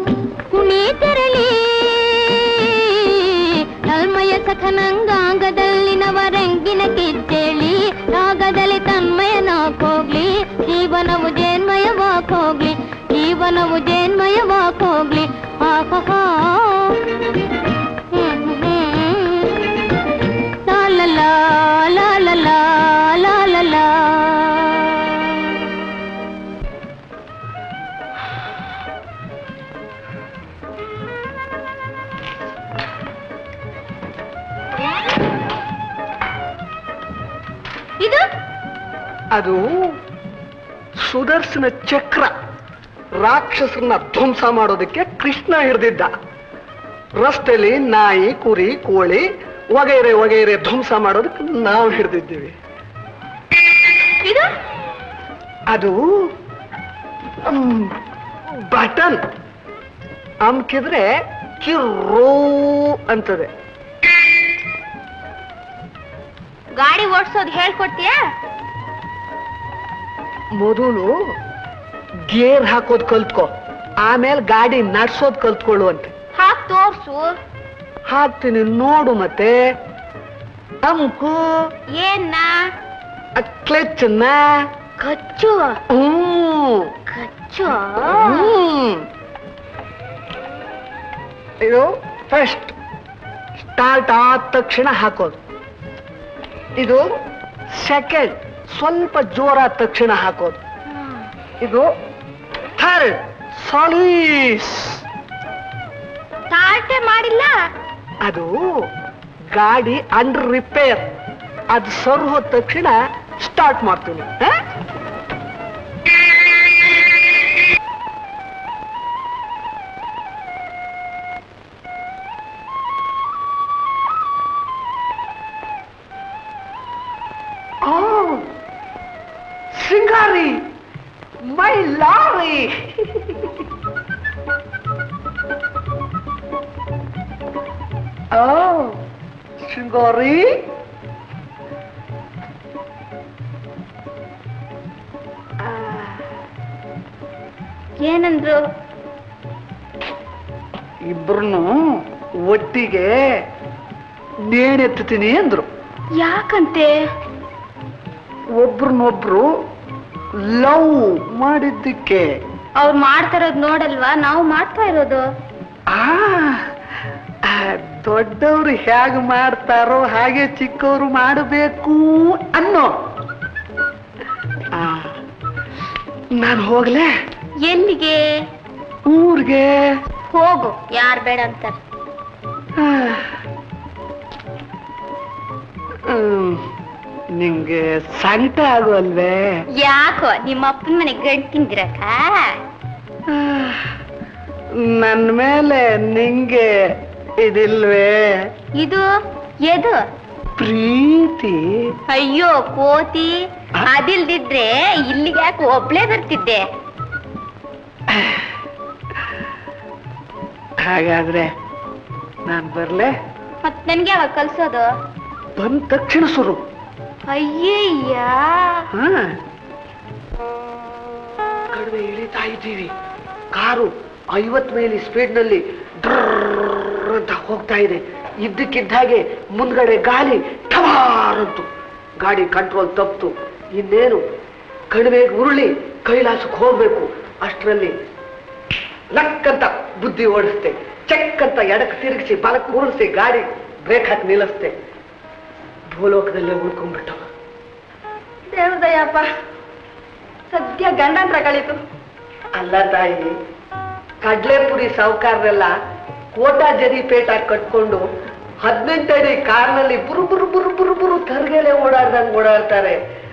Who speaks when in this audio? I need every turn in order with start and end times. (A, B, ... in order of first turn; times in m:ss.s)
0:00.5-0:02.1 A
0:03.9-0:15.2 A
0:15.8-0:16.1 A
0:18.3-0:19.0 A
0:20.8-0:21.2 A
0:22.0-0:22.5 A
0:39.3-0:39.9 B
0:41.0-0:42.3 B
0:43.2-0:46.1 B
0:47.2-0:52.5 B
0:55.7-0:56.3 B
0:57.4-0:57.9 B
0:58.6-0:59.2 B
1:00.4-1:01.0 B
1:01.6-1:03.5 B
1:06.7-1:08.2 C
1:10.6-1:11.1 B
1:12.3-1:16.1 B
1:16.3-1:17.3 C
1:18.1-1:19.6 B
1:20.8-1:21.4 B
1:21.9-1:22.6 C
1:23.4-1:24.4 B
1:25.0-1:25.7 C
1:25.9-1:26.9 B
1:27.1-1:28.5 C
1:28.1-1:29.0 B
1:31.6-1:32.7 B
1:33.6-1:35.4 B
1:36.8-1:37.0 B
1:37.7-1:40.6 B
1:42.8-1:45.0 B
1:46.5-1:47.5 C
1:48.2-1:48.8 B
1:49.5-1:51.1 B
1:51.7-1:54.6 B
2:07.8-2:08.4 B
2:09.7-2:10.6 B
2:11.4-2:12.8 B
2:18.3-2:19.0 B
2:19.6-2:20.6 B
2:25.6-2:26.2 B
2:28.0-2:28.6 C
2:31.1-2:31.7 B
2:32.4-2:33.1 B
2:34.5-2:35.7 B
2:36.2-2:36.9 C
2:38.6-2:39.5 B
2:40.4-2:42.3 B
2:42.7-2:45.2 C
2:45.9-2:46.6 B
2:47.4-2:52.9 B
2:54.7-2:55.2 B
2:56.4-2:57.1 B
2:57.6-2:58.2 C
2:59.0-2:59.9 B
3:00.3-3:01.8 C
3:02.8-3:03.2 B
3:06.0-3:06.6 B
3:07.4-3:09.6 B
3:09.7-3:12.5 C
3:13.3-3:13.9 B
3:14.8-3:16.7 B
3:17.4-3:18.2 B
3:18.7-3:19.1 C
3:19.6-3:20.0 C
3:20.6-3:21.6 B
3:22.1-3:26.6 C
3:28.1-3:28.4 B
3:30.8-3:31.5 B
3:32.4-3:33.1 B
3:33.6-3:34.9 C
3:35.6-3:36.6 B
3:37.3-3:38.9 C
3:38.9-3:39.4 B
3:41.7-3:42.9 B
3:43.5-3:51.7 B
3:52.2-3:54.2 B
3:54.9-3:57.9 B
3:59.1-4:04.7 B
4:05.9-4:07.2 B
4:08.5-4:09.2 D
4:10.5-4:11.7 D
4:12.5-4:13.3 B
4:14.2-4:15.7 B
4:16.3-4:18.0 B
4:18.6-4:23.0 B